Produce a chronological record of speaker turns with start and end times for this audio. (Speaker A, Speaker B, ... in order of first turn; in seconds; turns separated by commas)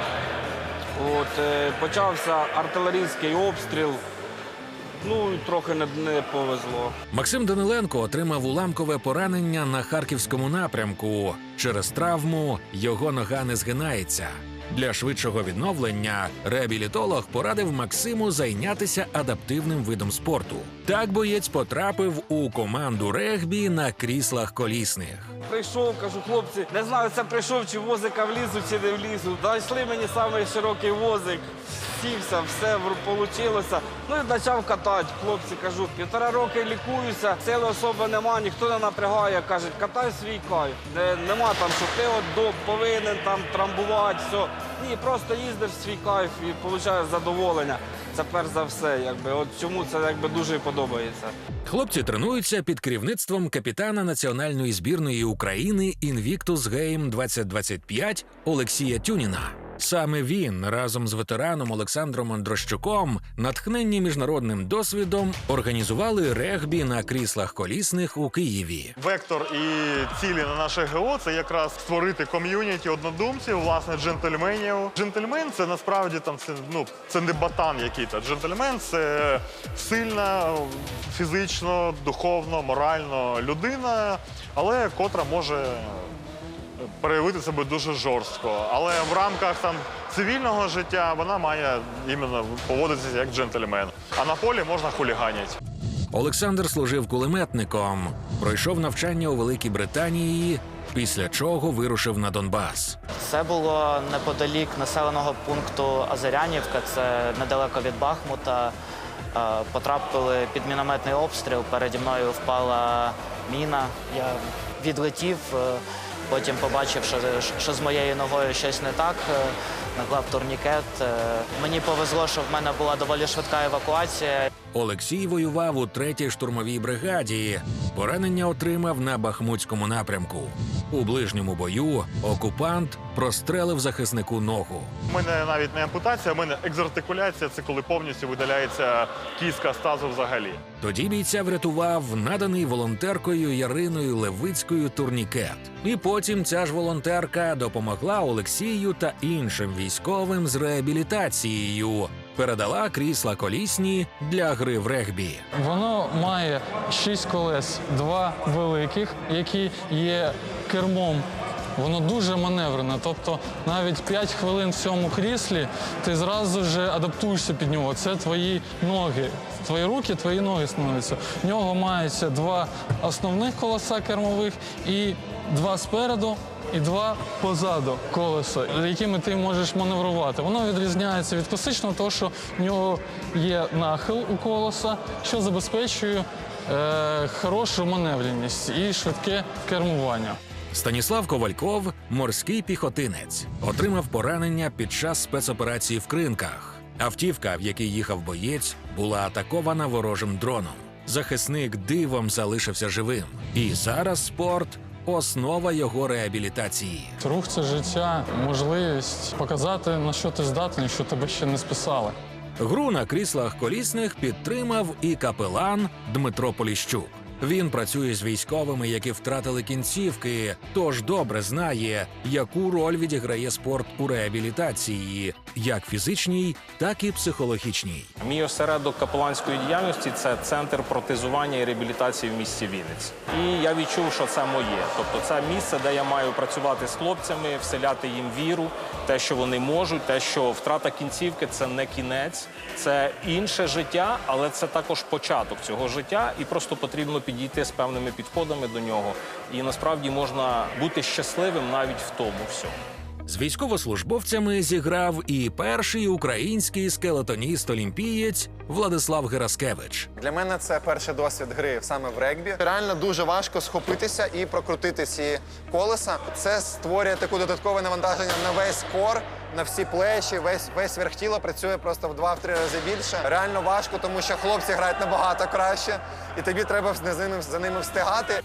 Speaker A: 0.9-4.0, Speaker A: 5.0-7.0, Speaker B: 7.1-25.3, Speaker A: 25.5-51.3, Speaker B: 51.6-68.9, Speaker C: 69.0-86.1, Speaker C: 86.8-95.5, Speaker B: 96.1-103.0, Speaker D: 103.2-108.7, Speaker D: 109.3-124.5, Speaker B: 124.7-134.9, Speaker C: 135.1-140.6, Speaker B: 140.8-155.4, Speaker E: 155.6-190.4, Speaker B: 190.7-207.1, Speaker E: 207.2-212.1, Speaker B: 212.6-228.1, Speaker F: 228.2-252.7, Speaker B: 253.3-260.1, Speaker G: 260.2-278.3